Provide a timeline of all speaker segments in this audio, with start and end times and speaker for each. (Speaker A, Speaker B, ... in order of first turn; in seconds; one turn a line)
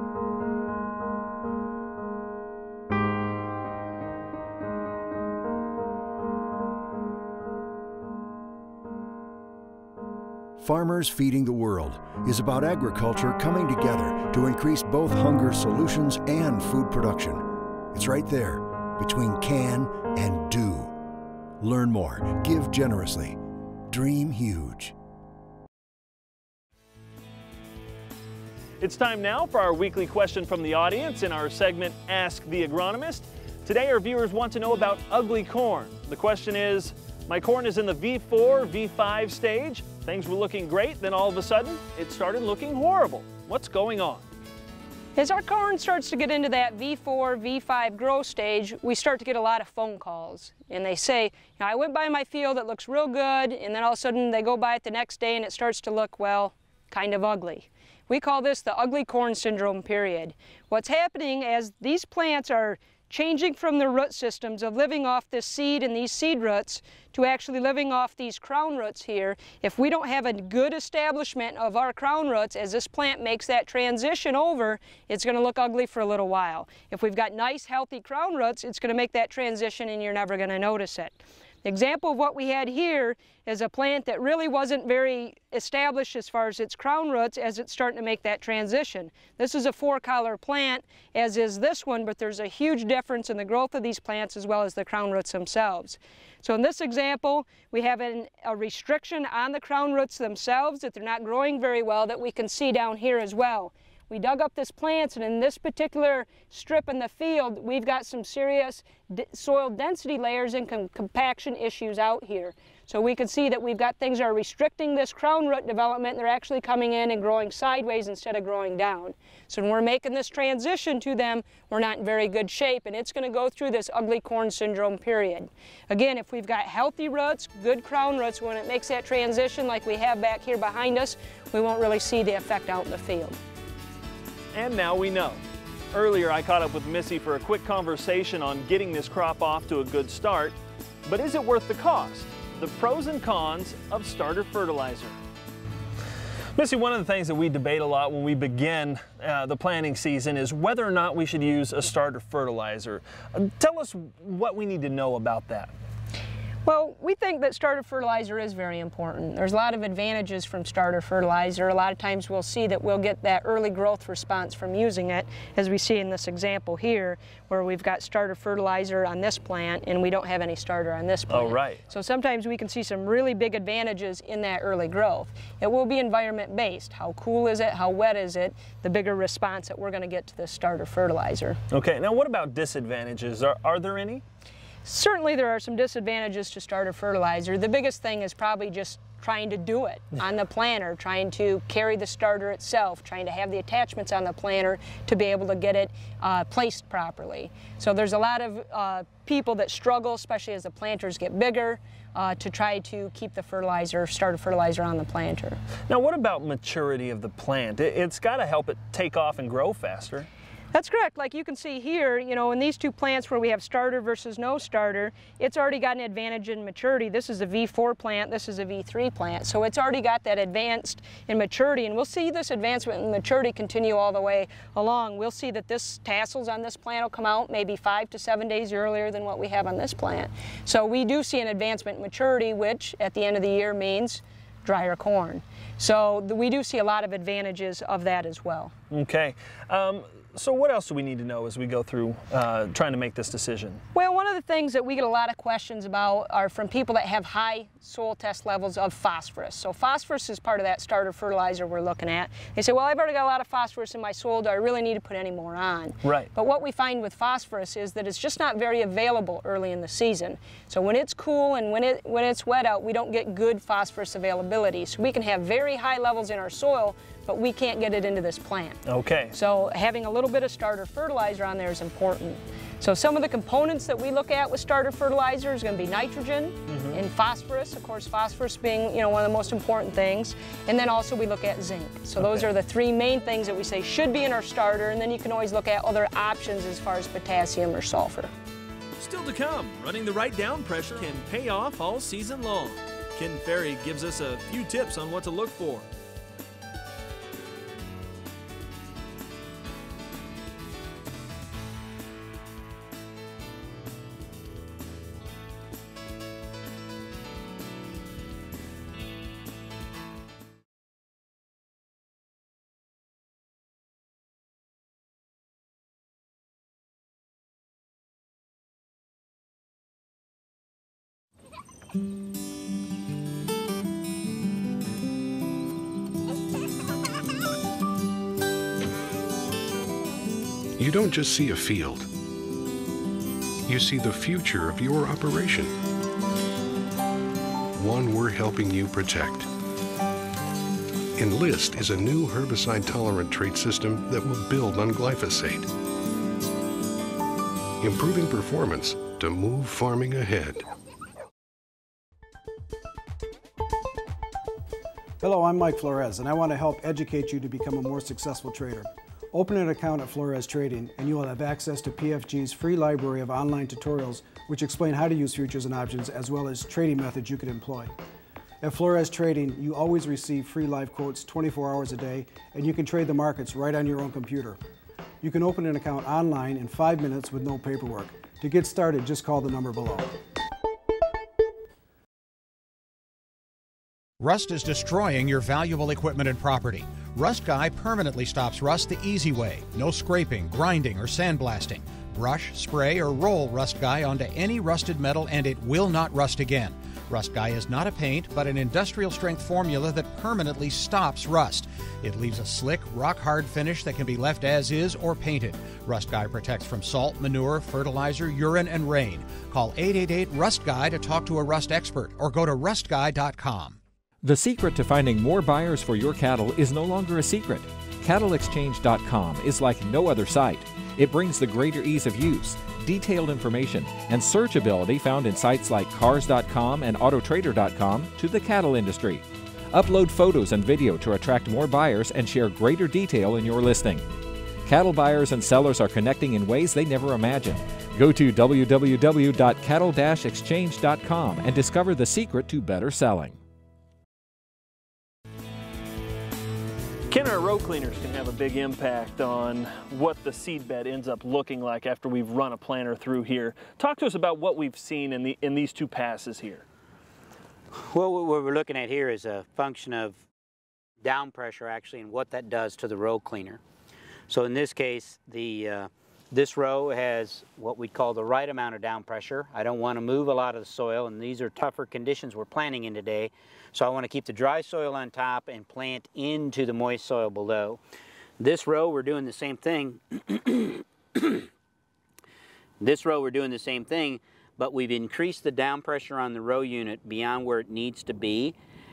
Speaker A: 10.6-20.9
Speaker A: 21.6-24.9
Speaker B: 28.8-44.2
Speaker C: 45.1-133.4
Speaker B: 134.5-135.4
Speaker B: 135.9-145.2
Speaker B: 146.5-155.7
Speaker C: 156.7-181.6
Speaker B: 171.3-171.8
Speaker B: 181.7-184.2
Speaker C: 184.8-205.6
Speaker B: 205.9-210.3
Speaker C: 210.7-238.7
Speaker B: 238.9-243.8
Speaker C: 243.9-288.3
Speaker B: 256.0-256.3
Speaker B: 268.9-269.3
Speaker B: 276.7-277.0
Speaker D: 289.0-295.9
Speaker E: 330.8-332.1
Speaker E: 333.6-335.7
Speaker E: 337.7-339.5
Speaker E: 341.1-345.7
Speaker E: 347.8-350.6
Speaker F: 355.2-367.9
Speaker F: 368.6-374.6
Speaker F: 375.2-380.2
Speaker G: 384.2-413.8
Speaker H: 414.2-434.0
Speaker H: 434.6-443.4
Speaker B: 447.1-456.6
Speaker I: 457.8-460.2
Speaker I: 461.0-463.6
Speaker I: 464.3-477.8
Speaker I: 478.4-481.5
Speaker I: 482.8-488.5